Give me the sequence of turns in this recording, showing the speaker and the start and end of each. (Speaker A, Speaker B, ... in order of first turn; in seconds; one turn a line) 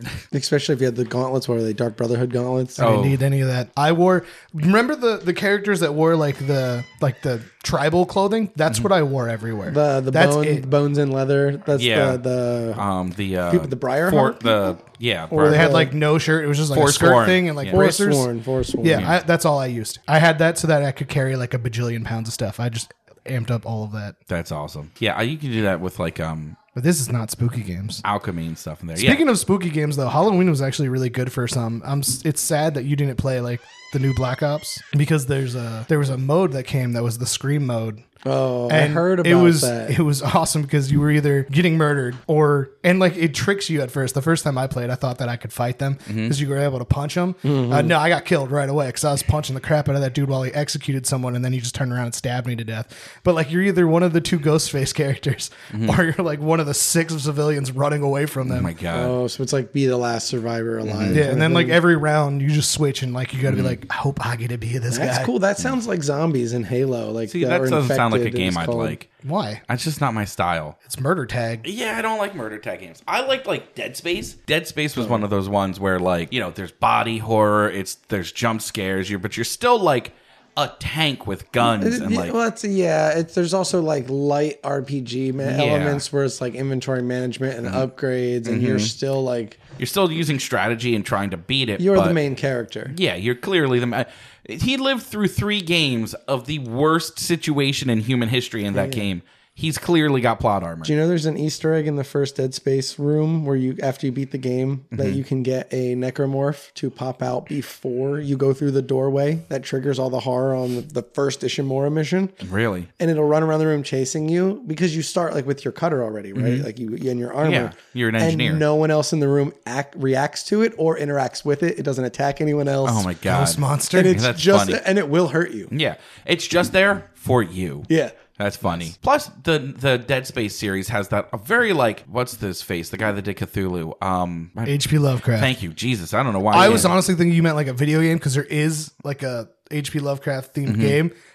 Speaker A: 0.3-2.9
Speaker B: 2.8-10.7
Speaker C: 2.8-3.2
Speaker A: 9.7-12.8
Speaker C: 11.8-12.2
Speaker C: 12.8-15.9
Speaker A: 13.5-14.8
Speaker A: 15.3-15.9
Speaker B: 15.4-18.3
Speaker C: 16.7-17.8
Speaker A: 17.7-19.1
Speaker B: 18.8-24.2
Speaker C: 18.9-19.2
Speaker C: 24.3-26.6
Speaker B: 26.8-28.0
Speaker C: 28.0-29.2
Speaker B: 29.0-38.0
Speaker A: 38.2-40.0
Speaker B: 38.7-58.7
Speaker C: 46.1-46.4
Speaker A: 47.4-48.0
Speaker C: 55.7-56.0
Speaker C: 58.4-59.1
Speaker A: 58.9-61.8
Speaker C: 60.8-61.3
Speaker B: 61.1-65.3
Speaker C: 63.5-63.8
Speaker A: 64.9-69.0
Speaker C: 67.3-69.1
Speaker B: 69.2-69.6
Speaker C: 69.7-70.8
Speaker B: 70.8-71.7
Speaker C: 71.6-82.3
Speaker A: 75.0-75.2
Speaker A: 81.6-89.6
Speaker C: 85.4-86.0
Speaker C: 88.5-88.9
Speaker C: 89.8-92.2
Speaker A: 91.8-93.0
Speaker C: 92.9-100.9
Speaker A: 98.7-99.1
Speaker A: 100.8-112.3
Speaker C: 104.9-105.2
Speaker C: 112.4-112.9
Speaker A: 113.0-123.1
Speaker C: 116.3-116.7
Speaker C: 117.4-118.7
Speaker C: 122.8-124.8
Speaker B: 123.2-124.2
Speaker A: 123.9-125.7
Speaker C: 125.7-134.8
Speaker A: 127.9-128.2
Speaker B: 134.7-135.5
Speaker C: 135.3-136.9
Speaker B: 136.5-141.1
Speaker A: 136.6-136.8
Speaker C: 140.7-141.0